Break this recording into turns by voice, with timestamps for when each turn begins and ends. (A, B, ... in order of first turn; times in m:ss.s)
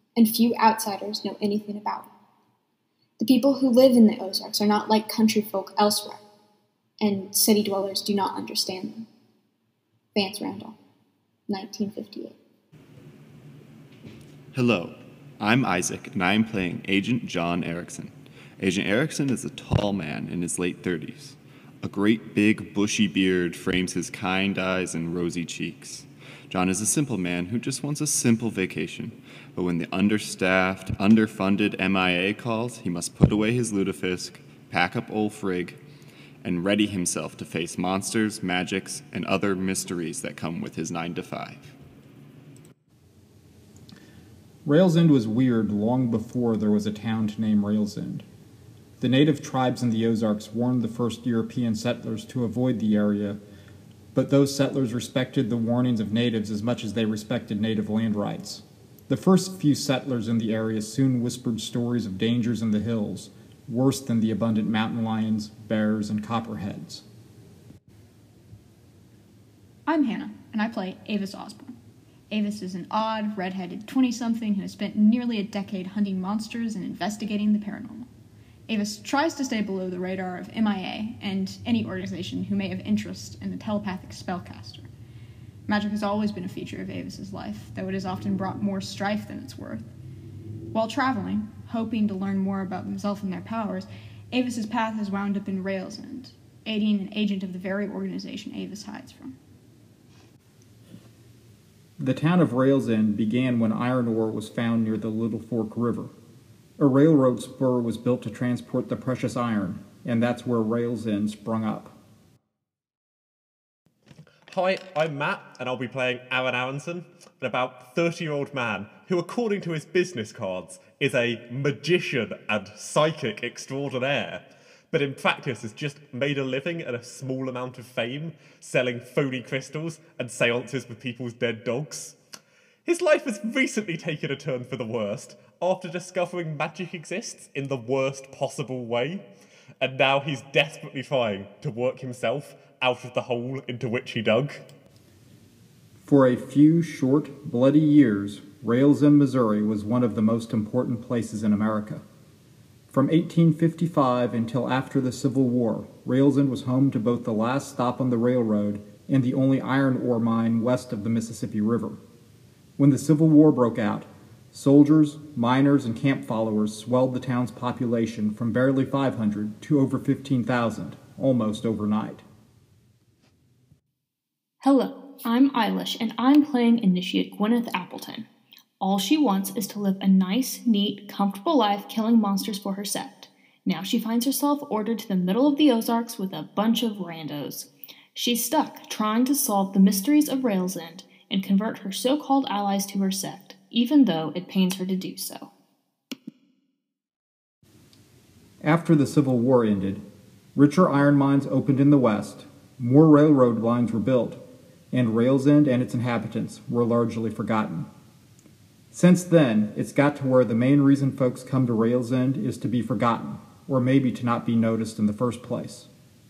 0:00.2-0:02.1 A
0:03.2-0:06.2 A
0:07.0-0:09.0 A
0:10.2-0:10.8 A
0:11.5-0:12.3 A
0:14.5-0:35.8 B
0:36.4-0:41.7 B
0:44.6-0:48.2 C
0:49.0-0:53.4 C
0:54.1-1:07.0 C
1:09.8-1:11.7 D
1:12.3-1:18.1 D
1:18.7-1:24.9 D
1:25.7-1:29.9 D
1:30.7-1:39.3 D
1:42.0-1:46.1 C
1:46.8-1:52.0 C
1:54.5-2:12.2 E
2:12.8-2:19.2 E
2:19.8-2:24.6 E
2:26.0-2:32.0 C
2:32.9-2:42.0 C
2:42.8-2:52.2 C
2:54.6-2:58.3 F
2:58.8-3:15.5 F
3:18.6-3:27.9 C
3:28.9-3:35.9 C